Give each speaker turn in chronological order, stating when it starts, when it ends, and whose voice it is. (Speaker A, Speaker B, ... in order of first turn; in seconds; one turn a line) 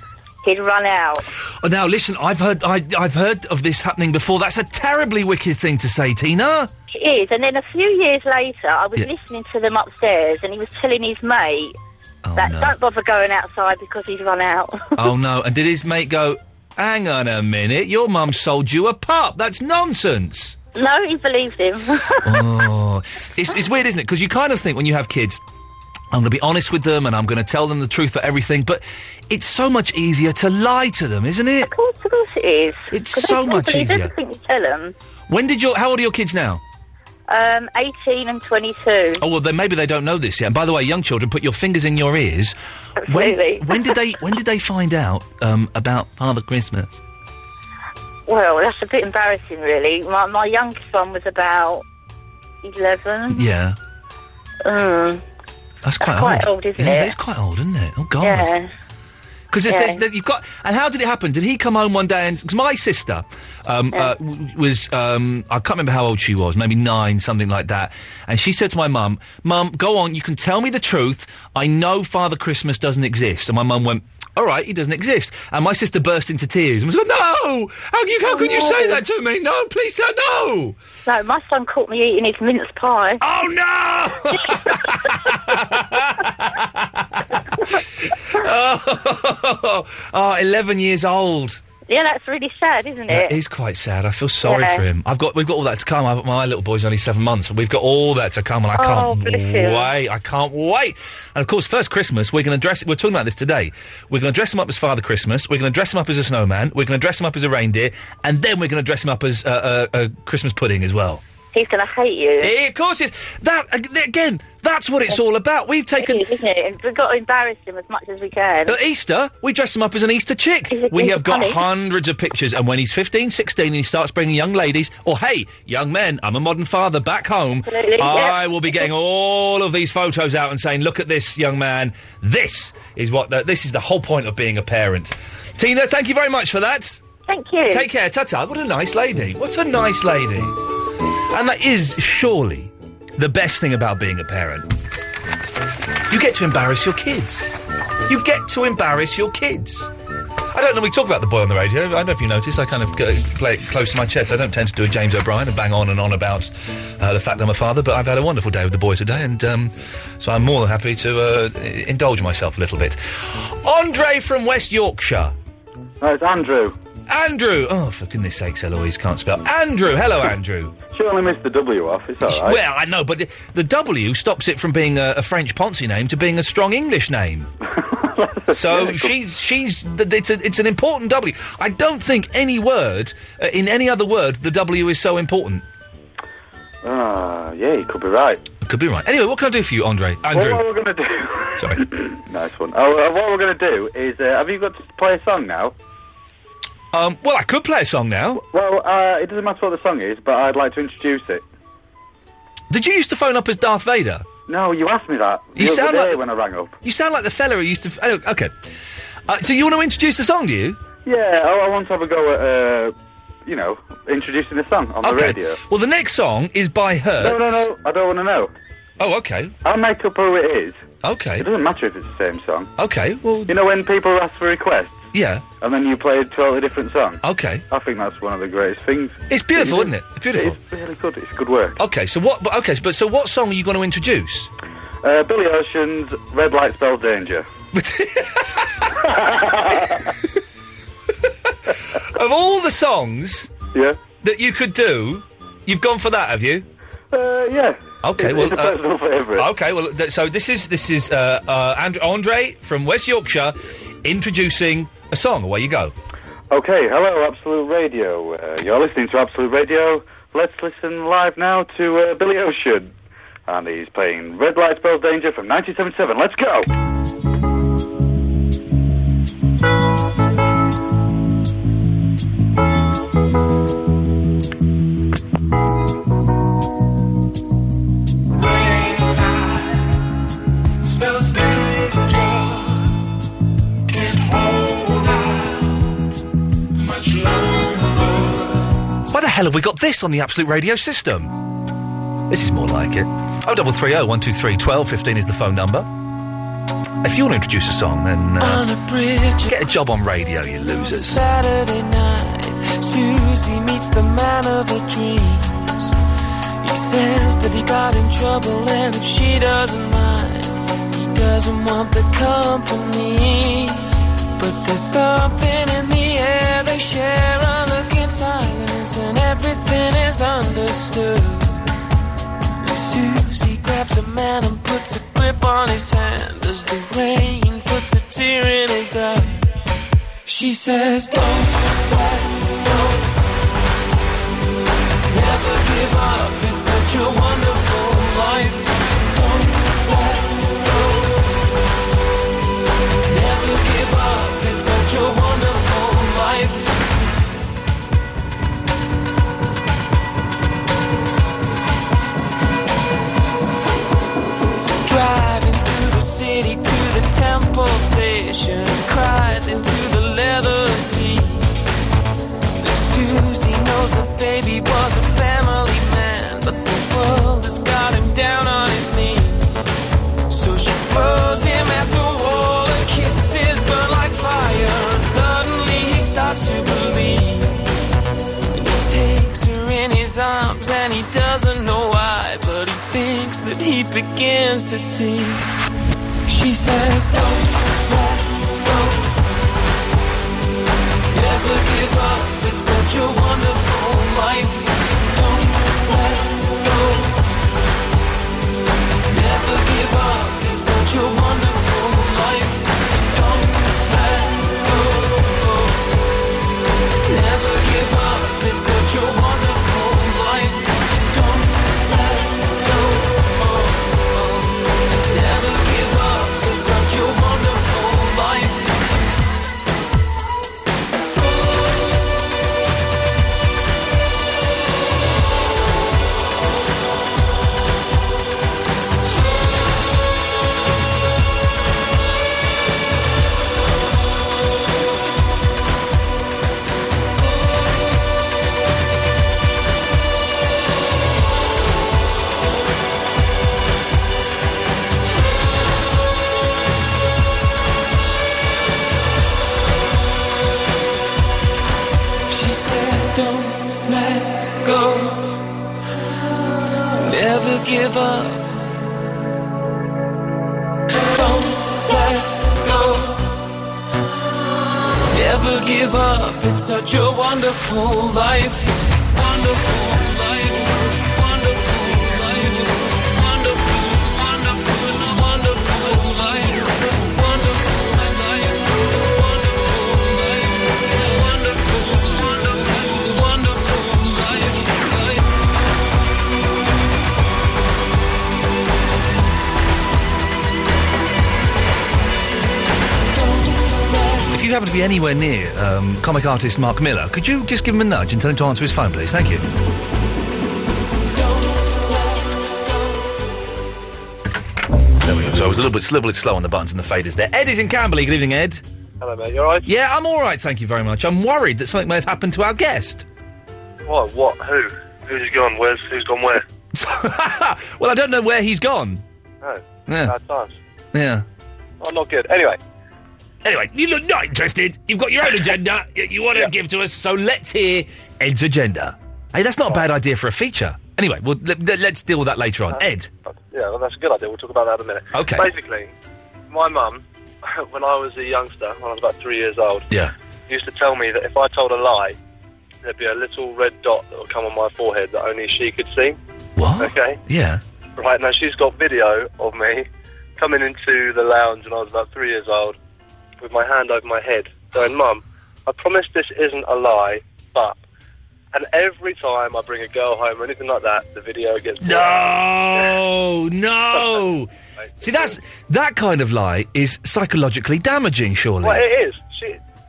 Speaker A: 0.4-1.2
Speaker B: 1.6-6.7
Speaker A: 6.9-11.8
Speaker B: 12.2-12.8
Speaker A: 12.3-14.9
Speaker B: 14.9-20.6
Speaker A: 20.7-22.4
Speaker B: 22.2-25.4
Speaker B: 26.1-31.7
Speaker A: 31.6-34.9
Speaker B: 32.9-34.1
Speaker B: 35.3-36.6
Speaker A: 37.3-39.2
Speaker B: 39.2-47.0
Speaker A: 43.0-44.0
Speaker A: 48.3-51.8
Speaker A: 52.6-53.4
Speaker B: 53.3-53.8
Speaker A: 54.6-55.2
Speaker B: 55.8-58.5
Speaker A: 56.0-57.1
Speaker A: 58.2-58.7
Speaker B: 59.5-80.8
Speaker A: 59.7-60.0
Speaker A: 78.2-79.0
Speaker A: 81.0-83.2
Speaker B: 83.2-91.6
Speaker A: 91.9-93.3
Speaker B: 93.1-111.2
Speaker A: 94.4-94.8
Speaker A: 98.7-99.9
Speaker A: 111.5-112.5
Speaker B: 112.4-116.3
Speaker A: 116.0-118.8
Speaker B: 118.7-137.0
Speaker A: 120.7-121.6
Speaker A: 127.7-128.9
Speaker A: 137.3-137.9
Speaker B: 137.7-140.6
Speaker B: 141.3-144.8
Speaker B: 146.1-149.9
Speaker B: 150.5-165.3
Speaker C: 166.0-166.7
Speaker B: 167.1-170.8
Speaker C: 170.9-172.6
Speaker B: 172.2-177.5
Speaker C: 177.8-179.1
Speaker B: 178.5-185.6
Speaker C: 186.8-188.4
Speaker B: 188.6-190.6
Speaker C: 190.3-195.7
Speaker B: 191.6-191.8
Speaker B: 196.9-198.4
Speaker C: 198.3-201.4
Speaker B: 202.7-204.2
Speaker C: 204.5-206.8
Speaker B: 205.6-206.2
Speaker B: 206.8-208.7
Speaker B: 209.3-210.8
Speaker C: 211.0-212.9
Speaker C: 213.4-215.6
Speaker B: 215.0-217.6
Speaker C: 217.2-218.5
Speaker B: 219.0-219.6
Speaker C: 219.6-220.8
Speaker B: 221.0-221.5
Speaker C: 221.4-222.7
Speaker B: 222.8-223.5
Speaker C: 223.5-225.1
Speaker B: 225.1-225.4
Speaker C: 225.6-231.8
Speaker B: 227.2-227.6
Speaker B: 229.3-230.6
Speaker B: 231.8-234.5
Speaker C: 235.0-237.4
Speaker B: 237.7-240.1
Speaker C: 239.2-240.0
Speaker B: 241.4-243.5
Speaker C: 243.7-244.0
Speaker B: 244.2-246.7
Speaker C: 247.1-249.5
Speaker B: 248.0-248.8
Speaker B: 249.3-255.9
Speaker C: 256.5-262.9
Speaker C: 263.5-266.7
Speaker B: 289.1-291.4
Speaker B: 292.3-295.9
Speaker B: 297.0-298.6
Speaker D: 298.4-300.1
Speaker B: 299.4-301.2
Speaker D: 300.6-305.9
Speaker D: 306.6-321.6
Speaker D: 322.6-329.5
Speaker D: 330.2-333.1
Speaker D: 335.1-341.4
Speaker D: 343.1-346.8
Speaker D: 354.8-361.6
Speaker D: 362.6-369.6
Speaker D: 370.3-377.6
Speaker D: 378.5-385.5
Speaker D: 386.3-389.1
Speaker D: 391.1-397.2
Speaker D: 399.1-405.8
Speaker D: 407.1-418.9
Speaker D: 452.3-455.4
Speaker D: 457.0-458.7
Speaker D: 461.1-463.4
Speaker D: 465.1-485.2
Speaker D: 493.1-494.3
Speaker B: 494.3-499.5
Speaker D: 501.1-503.1
Speaker B: 505.0-508.6
Speaker E: 509.0-509.7
Speaker B: 509.6-513.0
Speaker E: 513.8-516.4
Speaker B: 516.7-519.0
Speaker E: 519.4-520.5
Speaker B: 519.9-520.1
Speaker B: 520.9-521.2
Speaker E: 521.8-522.6
Speaker B: 523.4-533.1
Speaker E: 532.7-535.9
Speaker B: 535.1-535.5
Speaker E: 536.5-539.9
Speaker E: 540.5-542.2
Speaker E: 542.8-546.2
Speaker B: 546.5-547.6
Speaker E: 546.8-547.2
Speaker E: 548.0-552.8
Speaker E: 553.4-557.8
Speaker E: 558.5-562.9
Speaker B: 561.8-568.8
Speaker E: 563.9-564.2
Speaker E: 564.8-565.3
Speaker E: 568.6-569.6